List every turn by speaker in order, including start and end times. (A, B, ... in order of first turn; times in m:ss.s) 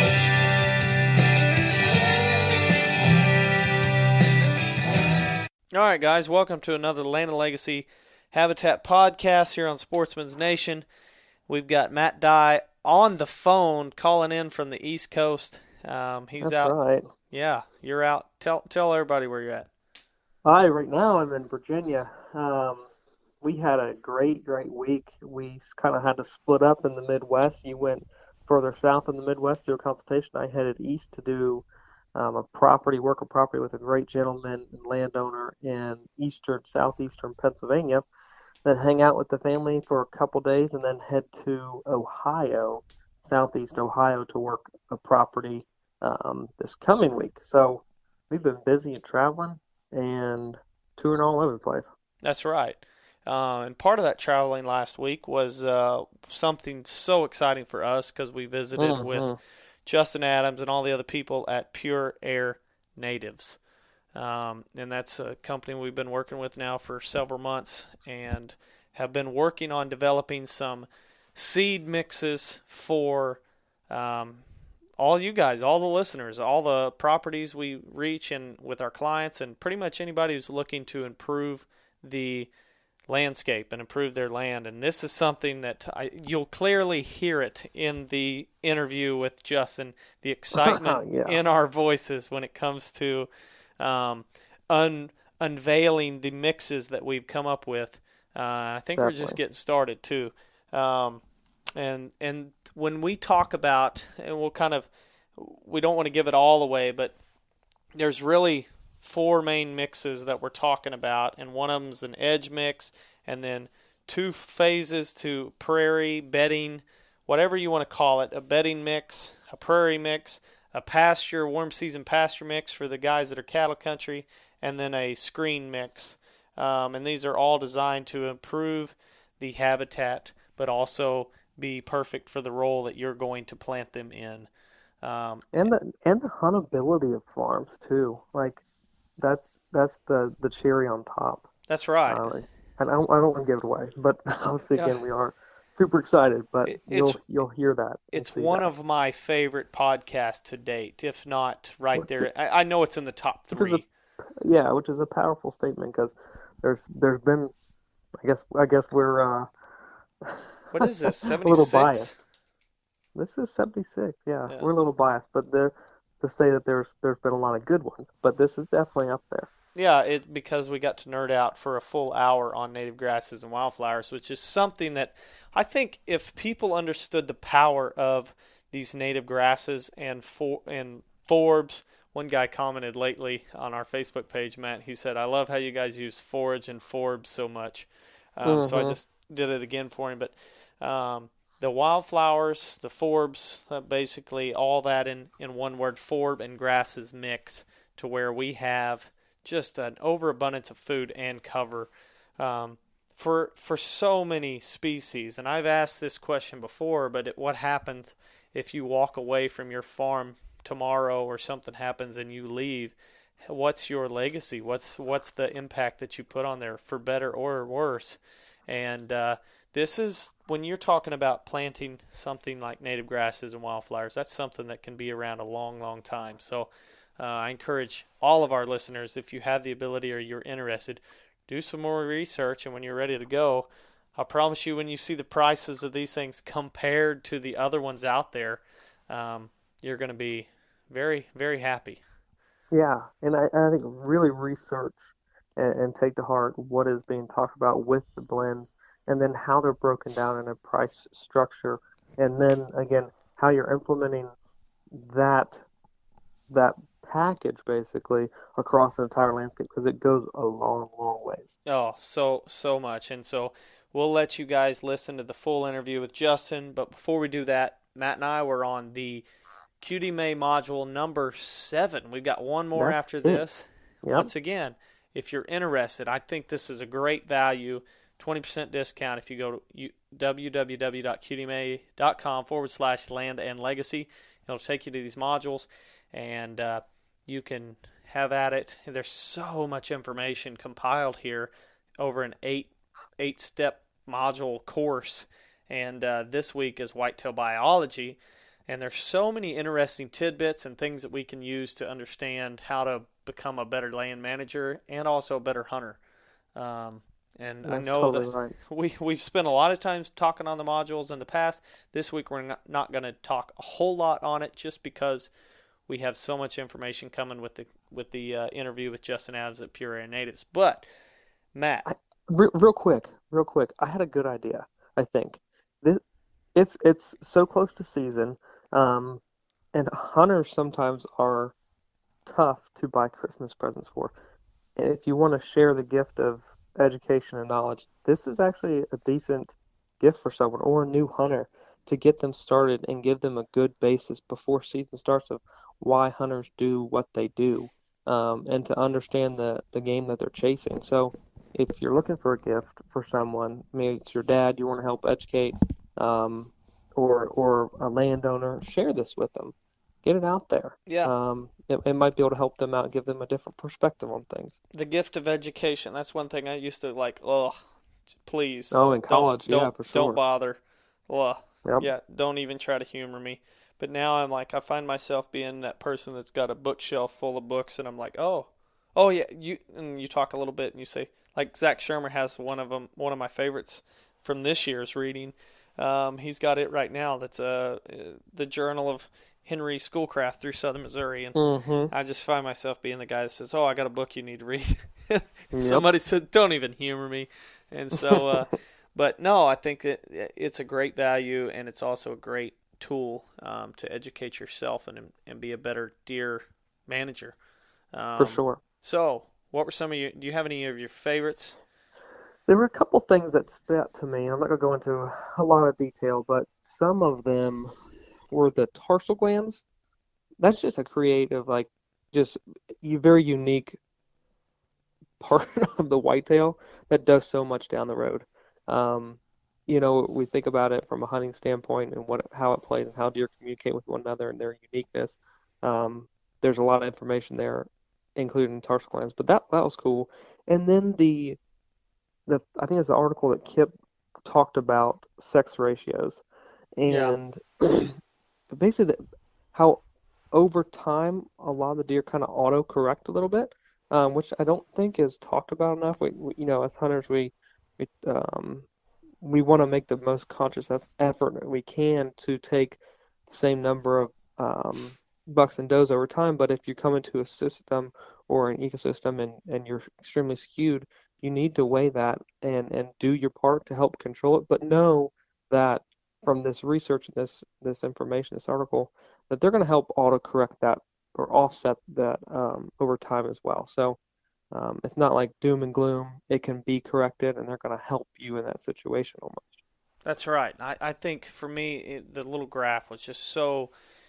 0:05.7-0:10.8 A
0:11.5-0:16.7 A
0:16.4-0:17.1 B
0:17.3-0:19.7 A
0:20.4-0:22.9 B
0:23.4-0:38.0 B
0:38.6-0:51.9 B
0:52.2-0:59.3 A
0:58.8-0:59.4 B
0:59.9-1:03.6 A
1:04.1-1:14.4 A
1:15.0-1:22.5 A
1:23.1-1:33.3 A
1:30.5-1:31.4 B
1:33.8-1:41.2 A
1:39.0-1:39.4 B
1:41.8-1:47.2 A
1:47.9-2:14.5 A
2:15.0-2:15.7 A
2:15.5-2:18.6 B
2:19.2-2:21.5 B
2:21.7-2:22.3 A
2:22.1-2:28.7 B
2:24.8-2:25.0 A
2:26.6-2:27.2 A
2:28.1-2:33.8 A
2:31.9-2:32.3 B
2:33.5-2:33.8 B
2:34.4-2:37.5 B
2:38.2-2:39.5 B
2:40.2-2:42.1 B
2:40.7-2:42.2 A
2:43.2-2:49.5 B
2:49.8-4:02.0 A
3:08.4-3:09.0 B
4:02.7-4:14.3 B
4:15.0-4:15.6 B
4:16.5-4:21.6 B
4:21.6-4:29.2 A
4:29.8-5:06.0 A
4:32.8-4:33.4 B
4:34.0-4:34.3 B
5:06.6-5:15.3 A
5:07.6-5:08.6 B
5:15.9-5:20.8 A
5:21.6-5:21.9 A
5:21.8-5:26.0 B
5:26.6-5:29.2 B
5:29.7-5:31.5 B
5:32.2-5:34.1 B
5:34.8-6:04.6 B
6:00.9-6:01.1 A
6:04.7-6:07.6 A
6:08.2-6:31.4 A
6:08.7-6:10.2 B
6:31.4-6:31.9 B
6:31.9-6:47.4 A
6:35.5-6:35.9 B
6:47.9-6:51.6 A
6:48.2-6:48.6 B
6:52.5-6:57.8 B
6:58.3-6:59.6 B
7:00.4-7:03.8 B
7:05.2-7:21.4 B
7:22.3-7:23.8 B
7:24.2-7:26.2 B
7:26.8-7:28.0 B
7:26.9-7:27.2 A
7:28.5-7:29.0 B
7:29.5-7:29.8 B
7:30.3-7:38.7 B
7:39.2-8:04.0 B
8:04.5-8:09.6 B
8:10.0-8:13.7 A